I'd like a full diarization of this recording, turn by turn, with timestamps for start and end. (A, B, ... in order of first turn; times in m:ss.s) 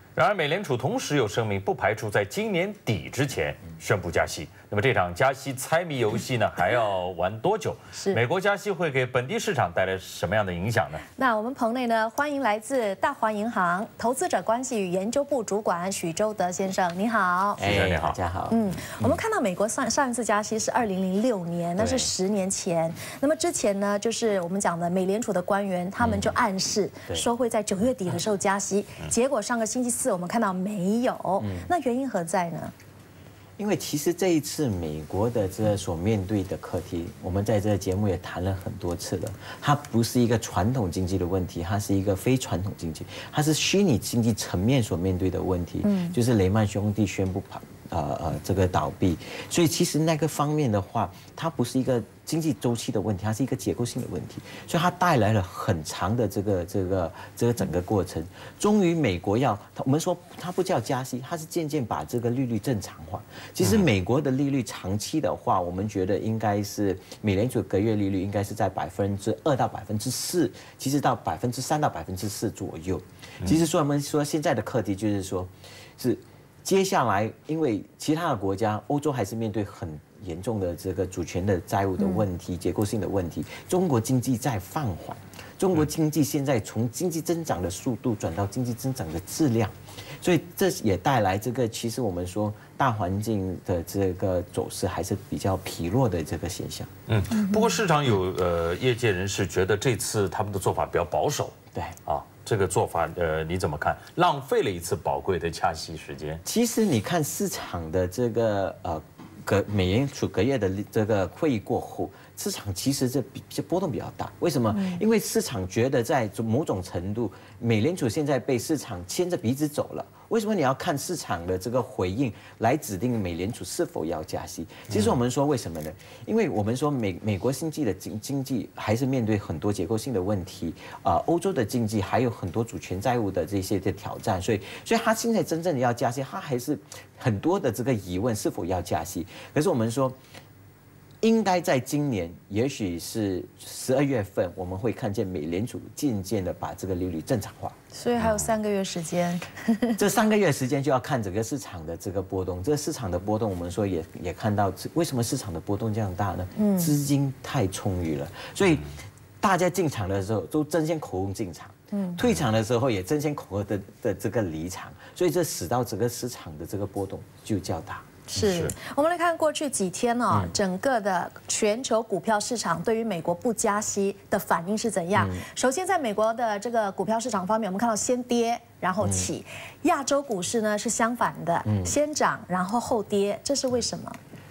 0:00.2-0:11.0 A
0:07.9-0:08.2 B
0:11.2-0:17.6 B
0:17.6-0:18.2 A
0:17.6-0:19.2 C
0:18.5-0:32.7 B
0:21.8-0:22.1 A
0:26.0-0:26.3 A
0:31.4-0:31.7 C
0:33.6-1:36.9 C
0:45.8-0:46.2 B
1:22.0-1:22.2 B
1:37.1-1:46.4 A
1:37.3-1:37.8 B
1:46.4-2:20.2 C
1:54.7-1:55.0 B
2:04.9-2:05.2 A
2:21.2-2:27.8 C
2:27.9-2:30.0 B
2:30.0-2:48.1 C
2:36.6-2:36.9 B
2:41.9-2:42.2 B
2:48.3-3:04.2 B
2:48.4-2:48.7 A
2:55.1-2:55.4 C
2:59.0-2:59.3 C
3:01.6-3:02.0 C